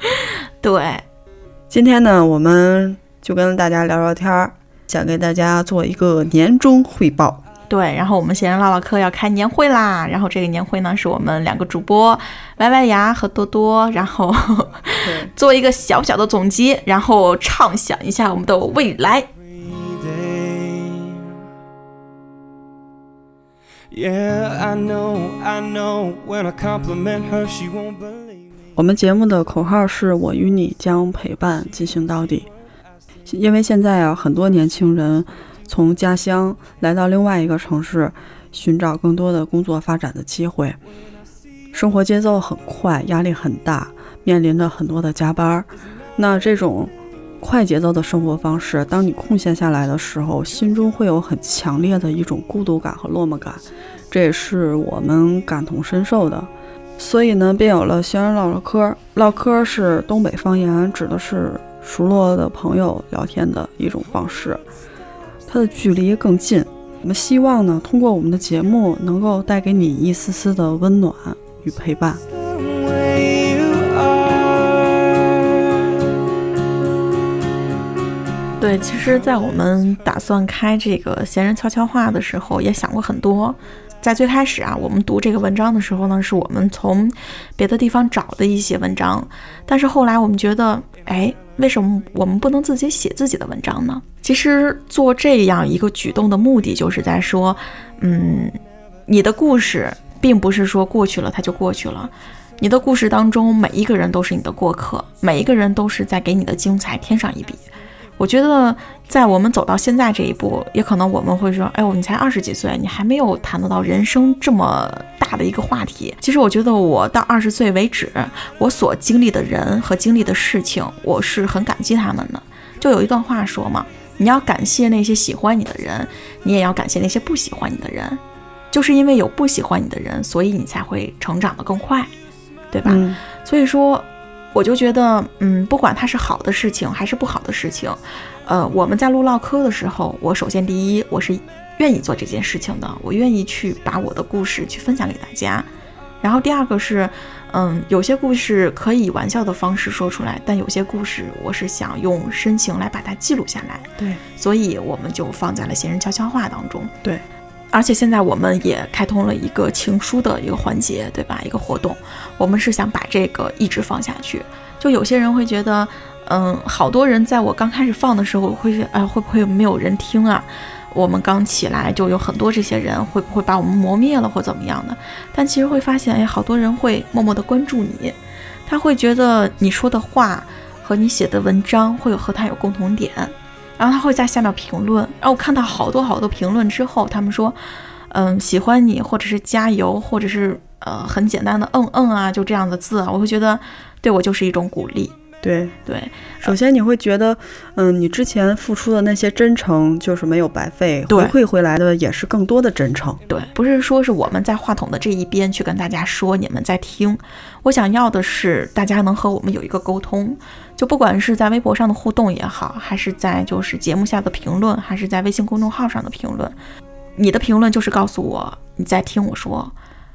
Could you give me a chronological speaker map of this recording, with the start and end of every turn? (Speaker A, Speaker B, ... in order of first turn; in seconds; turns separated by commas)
Speaker A: 0.6-1.0, Speaker B: 1.7-7.4, Speaker A: 7.7-19.3, Speaker B: 15.0-15.3, Speaker C: 19.6-21.3, Speaker C: 23.9-28.5, Speaker B: 28.8-32.5, Speaker B: 33.3-40.8, Speaker B: 41.7-64.6, Speaker B: 65.5-72.2, Speaker C: 72.3-76.2, Speaker A: 78.6-107.7, Speaker C: 79.1-79.4, Speaker A: 108.2-128.2, Speaker A: 128.7-132.1, Speaker A: 132.7-145.7, Speaker B: 132.8-133.2, Speaker A: 146.2-156.9, Speaker A: 157.7-187.6, Speaker A: 188.1-195.2, Speaker B: 195.4-195.8, Speaker A: 195.8-196.6, Speaker B: 196.4-203.2, Speaker A: 201.1-201.3, Speaker A: 203.3-216.6, Speaker A: 217.2-219.8